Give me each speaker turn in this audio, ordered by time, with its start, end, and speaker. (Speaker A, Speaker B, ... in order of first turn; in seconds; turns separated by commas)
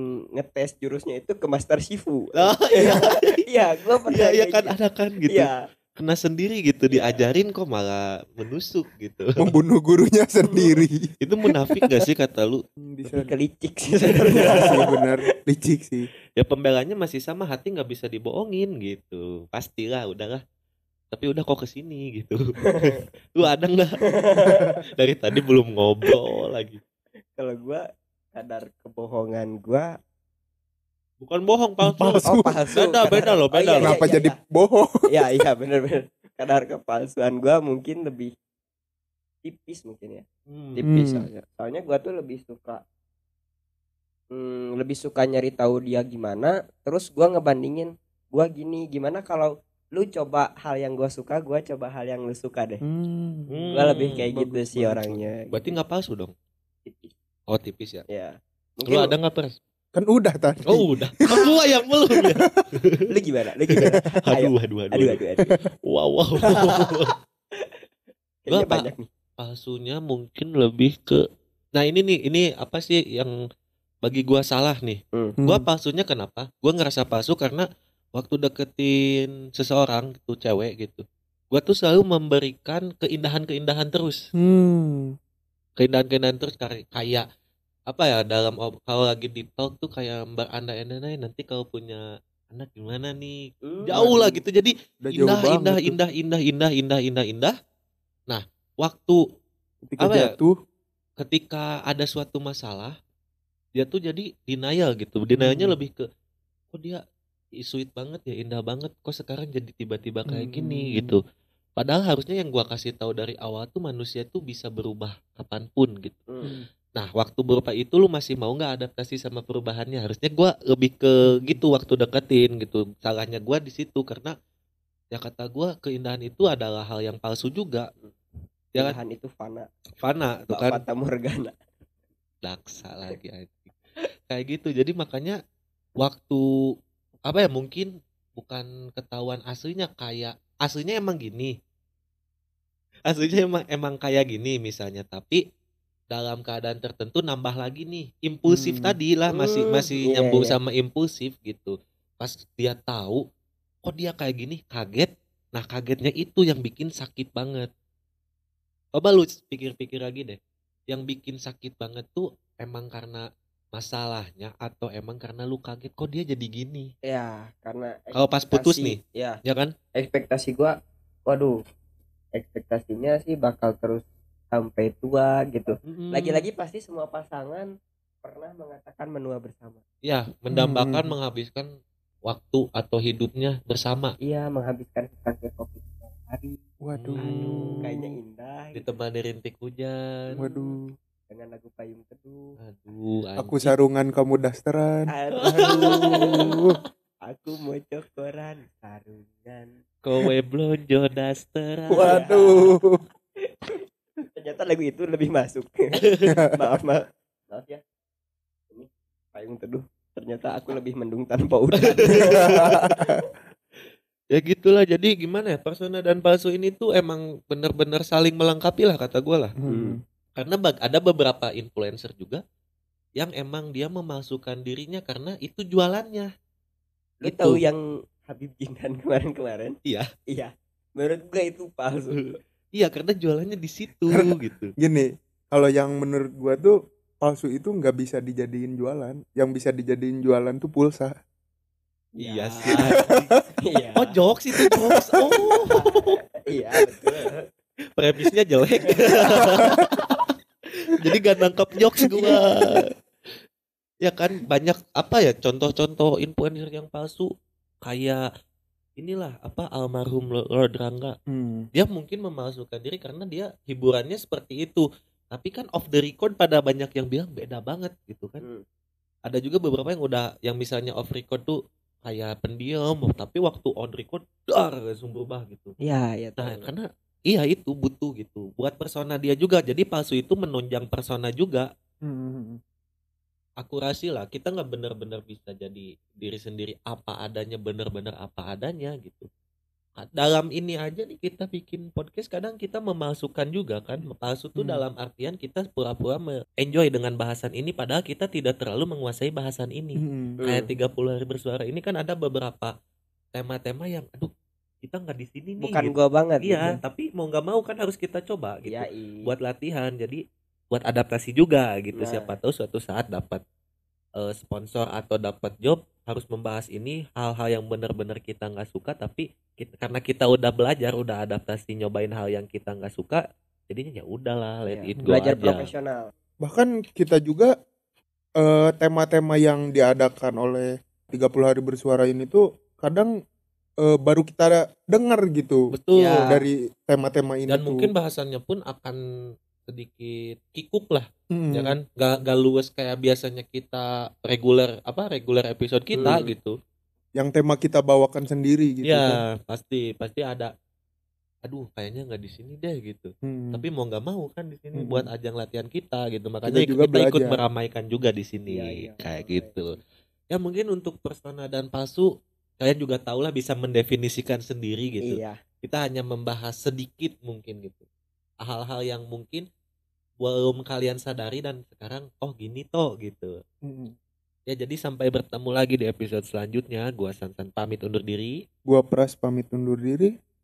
Speaker A: 0.3-5.6, Speaker B: 2.3-3.4, Speaker B: 4.1-9.2, Speaker A: 6.9-7.2, Speaker C: 9.4-11.1, Speaker B: 11.2-12.6, Speaker C: 12.8-13.3, Speaker A: 13.0-15.0, Speaker C: 14.3-16.1, Speaker B: 14.3-14.6, Speaker B: 16.4-20.4, Speaker B: 21.1-24.0, Speaker A: 24.1-24.7, Speaker B: 25.0-26.8, Speaker A: 27.4-27.8, Speaker A: 28.3-29.9, Speaker B: 31.2-34.0, Speaker C: 31.8-32.7, Speaker A: 32.2-34.4, Speaker C: 33.8-35.2, Speaker A: 35.1-38.3, Speaker A: 39.4-42.8, Speaker B: 40.5-40.8, Speaker C: 40.8-41.3, Speaker A: 44.3-52.8, Speaker C: 52.8-55.3, Speaker B: 53.5-54.2, Speaker A: 53.7-55.8, Speaker B: 55.5-56.3, Speaker A: 56.8-57.1, Speaker B: 57.5-58.0, Speaker A: 58.1-59.1, Speaker B: 58.9-59.6, Speaker C: 59.9-61.5, Speaker B: 60.7-63.0, Speaker C: 62.1-62.5, Speaker A: 63.1-65.5, Speaker B: 63.8-65.2, Speaker B: 65.8-67.1, Speaker A: 66.4-66.9, Speaker A: 68.4-69.1, Speaker B: 68.5-71.2, Speaker B: 71.7-73.3, Speaker B: 74.0-84.2, Speaker C: 75.4-75.7, Speaker C: 84.4-85.1, Speaker B: 85.8-87.2, Speaker B: 87.9-97.5, Speaker A: 93.6-94.4, Speaker C: 93.9-94.1, Speaker C: 95.0-96.0, Speaker B: 98.3-99.2, Speaker C: 99.9-100.5, Speaker B: 100.0-100.3, Speaker B: 101.2-102.9, Speaker B: 103.8-106.0, Speaker C: 105.3-105.8, Speaker B: 106.7-107.0, Speaker B: 107.6-111.2, Speaker C: 110.3-111.2, Speaker B: 111.8-116.2, Speaker B: 116.9-124.3, Speaker C: 121.2-121.6, Speaker B: 125.1-127.9, Speaker A: 128.8-129.7, Speaker B: 130.0-130.8, Speaker A: 130.5-131.5, Speaker B: 132.4-133.7, Speaker B: 134.3-135.4, Speaker B: 136.0-136.4, Speaker B: 137.3-141.5, Speaker B: 143.1-145.4, Speaker B: 146.1-153.2, Speaker C: 148.5-148.9, Speaker A: 149.3-150.6, Speaker B: 153.8-157.7, Speaker B: 158.9-160.4, Speaker B: 160.9-163.2, Speaker B: 163.7-166.9, Speaker A: 167.0-169.4, Speaker B: 168.1-169.7, Speaker A: 169.9-170.7, Speaker A: 171.2-171.5, Speaker A: 172.3-177.7, Speaker B: 175.9-176.4, Speaker A: 178.2-179.8, Speaker B: 180.0-181.7, Speaker C: 180.5-181.1, Speaker B: 182.3-184.1, Speaker A: 184.2-186.6, Speaker C: 186.8-188.1, Speaker B: 186.9-187.9, Speaker A: 187.2-188.8, Speaker B: 188.7-190.4, Speaker A: 190.3-190.7, Speaker C: 190.4-190.9, Speaker A: 191.3-192.4, Speaker B: 192.6-193.7, Speaker C: 193.4-196.8, Speaker A: 195.1-196.6, Speaker B: 195.5-196.6, Speaker A: 197.2-199.7, Speaker B: 200.0-202.2, Speaker A: 201.9-202.8, Speaker C: 202.0-203.0, Speaker A: 204.3-207.8, Speaker B: 206.0-206.3, Speaker C: 206.2-206.5, Speaker A: 208.7-213.2, Speaker B: 212.1-212.8, Speaker C: 212.1-213.1, Speaker B: 214.3-219.5, Speaker C: 219.6-220.0, Speaker A: 219.6-220.0, Speaker B: 220.3-222.4, Speaker B: 223.2-226.3, Speaker A: 227.2-229.8, Speaker B: 227.2-227.6, Speaker A: 230.3-232.3, Speaker B: 232.7-234.7, Speaker C: 234.1-241.1, Speaker A: 242.2-243.1, Speaker B: 242.2-243.3, Speaker A: 243.6-244.1, Speaker B: 244.0-246.2, Speaker A: 245.7-247.4, Speaker B: 247.0-247.2, Speaker B: 248.0-250.2, Speaker A: 249.0-249.5, Speaker B: 250.8-252.9, Speaker B: 254.0-257.3, Speaker B: 257.8-258.2, Speaker B: 259.0-261.1, Speaker C: 261.3-261.6, Speaker B: 261.7-268.4, Speaker B: 269.3-275.8, Speaker A: 275.8-276.7, Speaker B: 276.4-281.7, Speaker C: 282.0-282.6, Speaker B: 283.6-289.3, Speaker B: 290.0-302.7, Speaker C: 294.6-294.8, Speaker C: 300.0-300.4, Speaker A: 300.4-300.7, Speaker B: 303.3-304.3, Speaker B: 304.8-310.2, Speaker A: 305.6-306.7, Speaker A: 308.6-309.3, Speaker B: 310.7-313.4, Speaker A: 311.9-312.3, Speaker B: 314.2-325.7, Speaker A: 324.7-326.1, Speaker C: 326.4-327.5, Speaker C: 328.4-333.1, Speaker C: 333.8-335.6, Speaker B: 335.7-336.3, Speaker A: 335.9-336.5, Speaker C: 336.2-337.9, Speaker B: 337.5-339.0, Speaker B: 339.6-346.6, Speaker C: 341.3-341.8, Speaker A: 346.0-346.3, Speaker C: 347.1-349.1, Speaker B: 348.9-350.5, Speaker B: 351.4-359.8, Speaker C: 353.2-353.6, Speaker C: 354.7-355.1, Speaker C: 356.4-357.4, Speaker A: 358.5-359.8, Speaker B: 360.3-362.1, Speaker B: 362.6-367.8, Speaker A: 365.0-365.4, Speaker B: 368.4-369.4, Speaker B: 370.2-373.3, Speaker C: 373.6-373.9, Speaker B: 374.5-378.4, Speaker C: 378.7-380.1